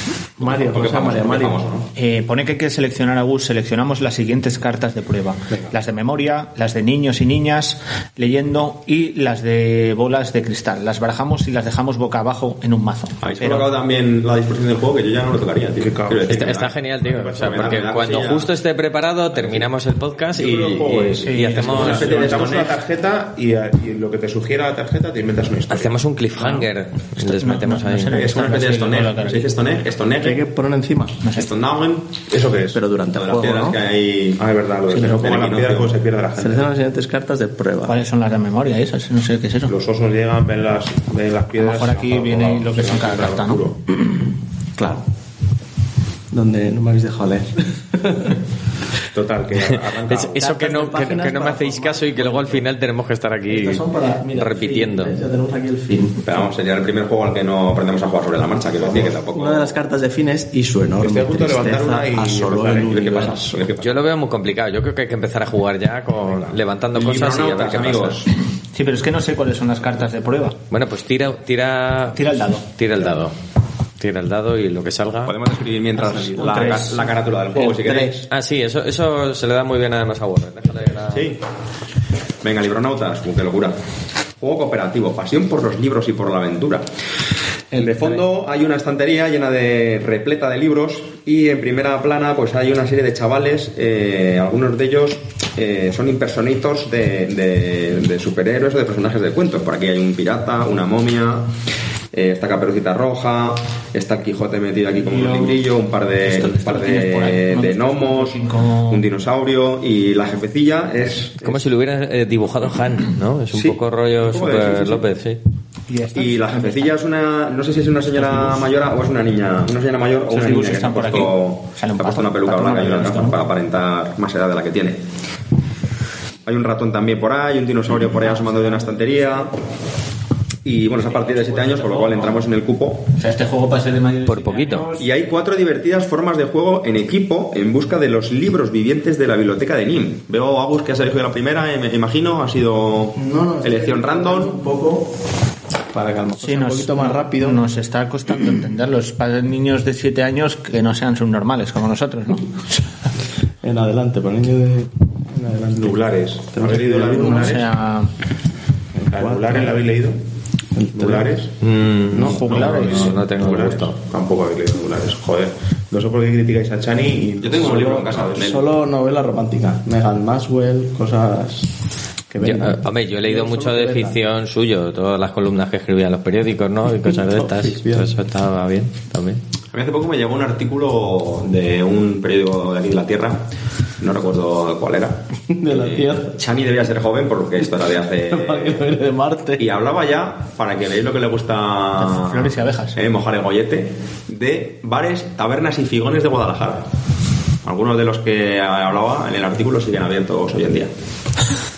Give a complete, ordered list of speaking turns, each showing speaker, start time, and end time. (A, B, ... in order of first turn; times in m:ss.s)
0:00.4-0:01.8 A
0:00.4-0:01.8 B
0:02.0-0:13.2 C
0:13.2-0:16.7 B
0:15.8-0:18.0 D
0:16.3-0:22.2 E
0:17.4-0:18.5 B
0:20.3-0:26.0 D
0:21.0-0:22.7 B
0:21.2-0:21.8 C
0:25.7-0:28.2 E
0:26.4-0:26.7 C
0:27.2-0:29.5 C
0:28.1-0:30.4 B
0:30.2-0:31.2 A
0:31.2-0:31.5 C
0:31.3-0:32.2 B
0:32.3-0:32.8 D
0:32.7-0:33.8 A
0:33.1-0:34.4 B
0:34.4-0:36.7 D
0:34.9-0:35.4 A
0:35.0-0:35.9 B
0:36.4-0:38.0 A
0:37.8-0:39.7 C
0:39.7-0:43.8 D
0:41.6-0:43.6 C
0:44.8-0:45.0 A
0:46.3-0:48.4 A
0:49.1-0:50.5 D
0:49.7-0:55.2 E
0:50.4-0:52.7 A
0:53.5-0:56.2 A
0:56.2-0:59.7 B
0:58.8-0:59.1 D
0:59.3-1:03.7 A
1:01.0-1:03.4 D
1:02.9-1:04.0 B
1:03.8-1:08.2 E
1:06.9-1:08.3 B
1:08.7-1:10.6 C
1:10.7-1:12.2 E
1:12.2-1:12.6 C
1:12.8-1:13.3 E
1:14.0-1:15.4 E
1:15.2-1:18.3 B
1:16.0-1:16.7 A
1:16.2-1:17.1 C
1:17.5-1:18.2 A
1:18.3-1:21.3 E
1:21.1-1:21.4 B
1:22.4-1:23.8 B
1:24.4-1:26.8 B
1:27.7-1:41.5 B
1:27.8-1:28.0 A
1:42.1-1:51.5 B
1:45.0-1:45.6 C
1:46.2-1:49.0 C
1:51.4-1:55.4 E
1:53.6-1:55.0 B
1:55.9-1:57.0 C
1:56.1-2:05.0 B
2:00.3-2:03.4 C
2:06.4-2:09.5 B
2:08.3-2:09.0 C
2:10.6-2:13.1 B
2:11.1-2:12.2 C
2:13.2-2:15.1 C
2:14.2-2:14.9 E
2:15.0-2:24.6 B
2:23.1-2:25.1 A
2:25.9-2:27.6 A
2:26.4-2:32.8 C
2:33.6-2:37.7 A
2:35.7-2:37.7 D
2:37.2-2:38.1 C
2:38.9-2:39.8 A
2:39.1-2:40.2 D
2:40.7-2:41.3 A
2:41.0-2:41.5 D
2:41.6-2:43.9 E
2:42.1-2:48.4 D
2:42.1-2:43.2 A
2:47.4-2:48.7 B
2:47.6-2:51.7 A
2:52.3-2:54.2 A
2:52.4-2:59.4 E
2:57.0-2:58.1 A
2:59.7-3:03.4 B
3:04.0-3:08.8 B
3:05.5-3:06.4 A
3:08.3-3:09.7 A
3:09.6-3:16.8 B
3:12.0-3:13.0 C
3:17.6-3:20.9 B